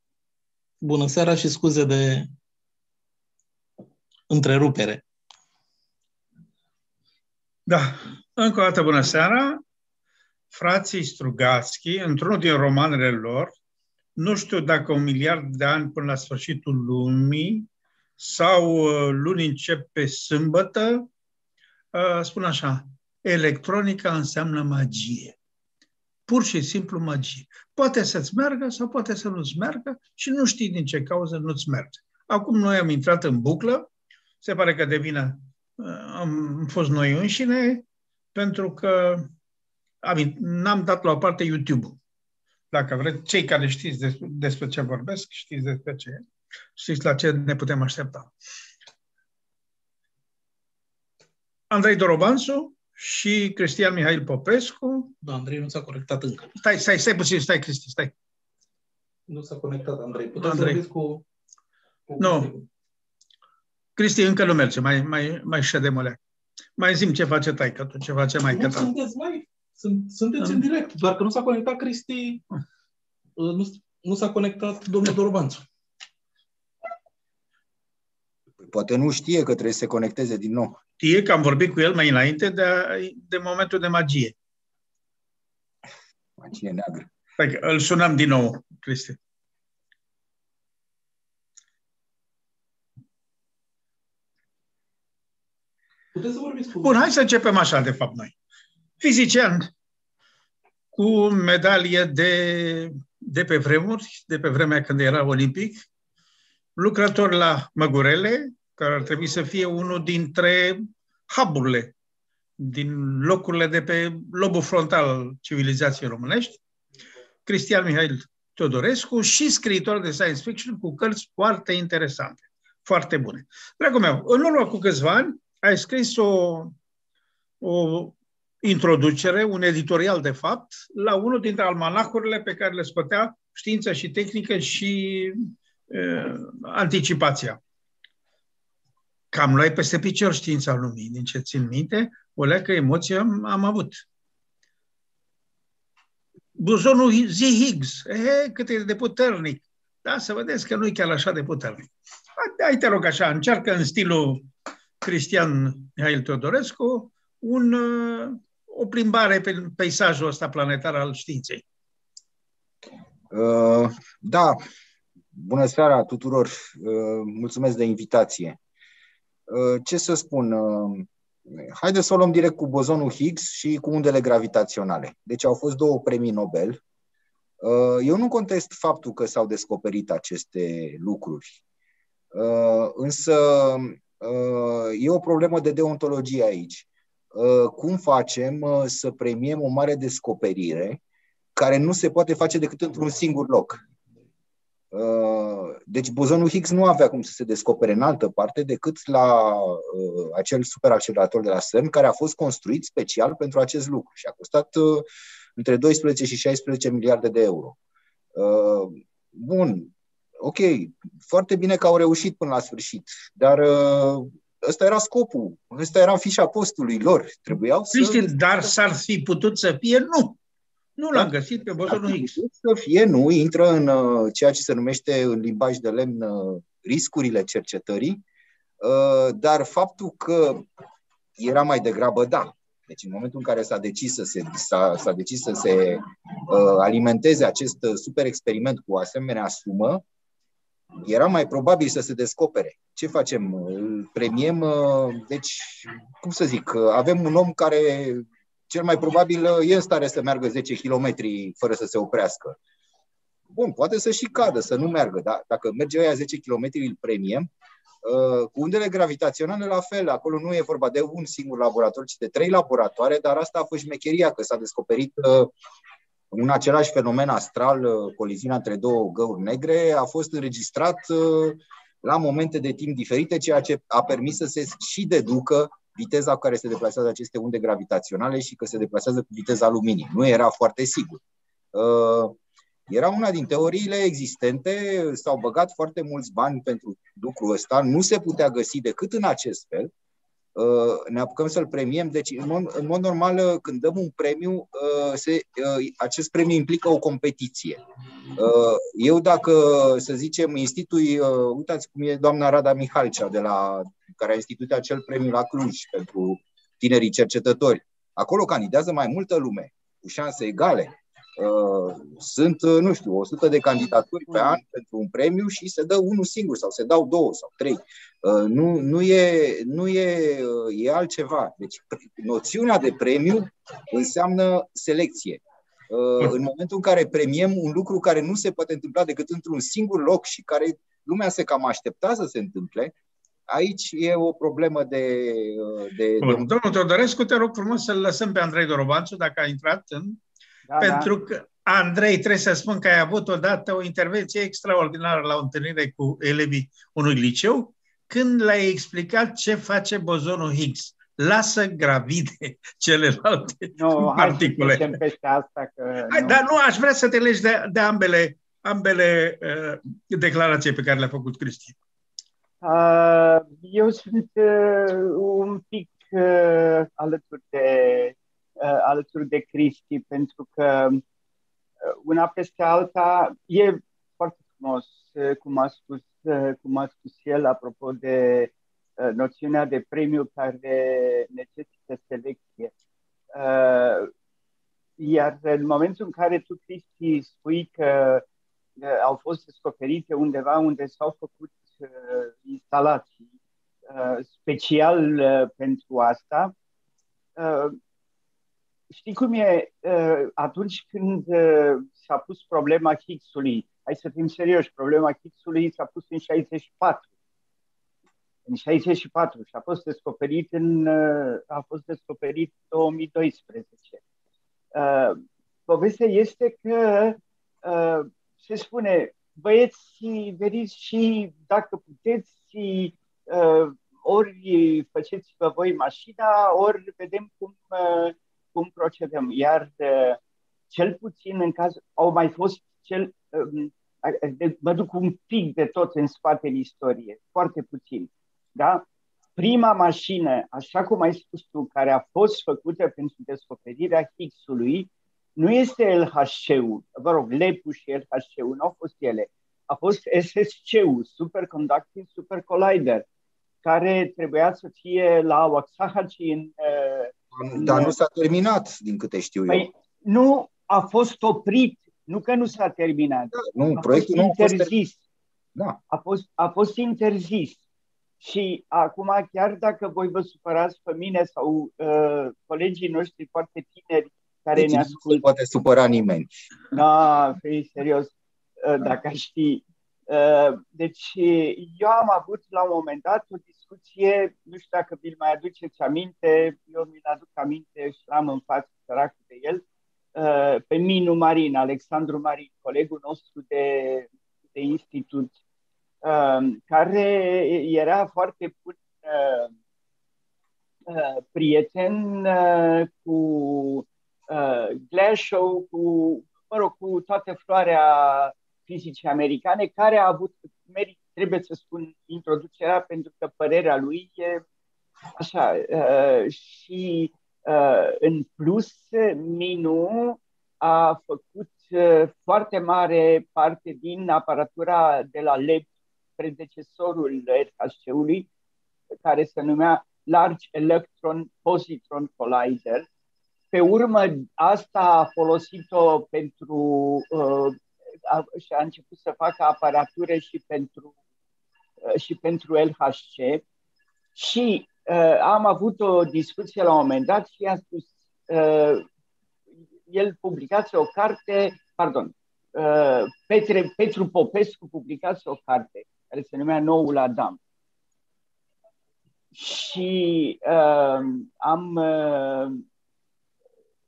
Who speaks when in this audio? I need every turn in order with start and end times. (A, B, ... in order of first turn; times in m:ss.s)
0:00.8-0:02.3 A
0:04.3-0:05.0 A
0:07.7-0:09.6 B
0:10.5-0:13.5 B
0:14.2-0:17.7 B
0:18.2-0:21.1 B
0:21.9-0:25.4 B
0:26.3-0:33.9 B
0:34.4-0:39.3 B
0:40.0-0:42.0 B
0:42.7-0:46.2 B
0:46.8-0:48.3 B
0:51.7-0:55.1 B
0:55.2-0:56.5 A
0:56.6-0:58.1 B
0:59.3-1:01.2 A
1:00.4-1:00.8 B
1:02.1-1:02.6 A
1:02.2-1:02.5 B
1:04.0-1:06.2 B
1:06.8-1:08.9 B
1:08.5-1:12.4 A
1:13.4-1:15.6 A
1:18.6-1:20.8 C
1:21.0-1:24.3 B
1:26.4-1:27.1 C
1:27.4-1:29.2 B
1:36.1-1:37.0 A
1:36.8-1:38.3 B
1:39.0-1:39.7 B
1:40.9-1:45.8 B
1:46.8-1:51.9 B
1:52.6-1:56.6 B
1:57.4-2:06.7 B
2:07.6-2:17.6 B
2:19.3-2:24.0 B
2:26.6-2:34.5 B
2:35.0-2:41.6 B
2:43.3-2:44.6 C
2:45.3-2:48.6 C
2:49.5-2:56.8 C
2:57.6-3:01.6 C
3:02.3-3:11.0 C
3:11.6-3:13.8 C
3:14.9-3:27.8 C
3:28.3-3:38.3 C
3:37.9-3:40.4 B
3:41.0-3:42.3 B
3:41.9-3:48.2 C
3:48.8-3:50.7 C
3:51.4-4:00.0 C
4:01.0-4:12.6 C
4:13.5-4:17.5 C
4:18.0-4:25.5 C
4:26.3-4:41.2 C
4:41.7-4:42.4 C
4:42.9-4:49.9 C
4:50.5-4:57.8 C
4:58.3-5:32.9 C
5:33.5-5:36.5 C
5:36.2-5:40.2 B
5:40.7-5:41.1 D
5:40.8-5:55.0 B
5:53.8-5:56.4 D
5:56.1-6:01.8 B
6:02.6-6:11.0 D
6:11.8-6:22.7 D
6:23.3-6:24.1 D
6:25.0-6:28.2 D
6:28.8-6:33.3 D
6:33.9-6:36.5 D
6:37.4-6:37.8 D
6:38.9-6:47.1 D
6:48.4-6:54.0 D
6:54.7-7:10.2 D
7:10.7-7:33.0 D
7:33.6-7:37.9 D
7:37.3-7:39.7 C
7:39.5-7:45.0 D
7:43.3-7:44.7 C
7:45.9-7:47.6 D
7:48.2-7:55.2 D
7:54.6-7:56.5 C
7:56.7-8:09.6 D
8:10.1-8:15.3 D
8:16.0-8:19.5 D
8:20.9-8:34.4 D
8:35.2-8:48.3 D
8:49.0-8:52.8 D
8:53.5-9:00.9 D
9:01.8-9:03.4 D
9:04.1-9:08.8 D
9:09.9-9:17.4 D
9:19.3-9:22.6 D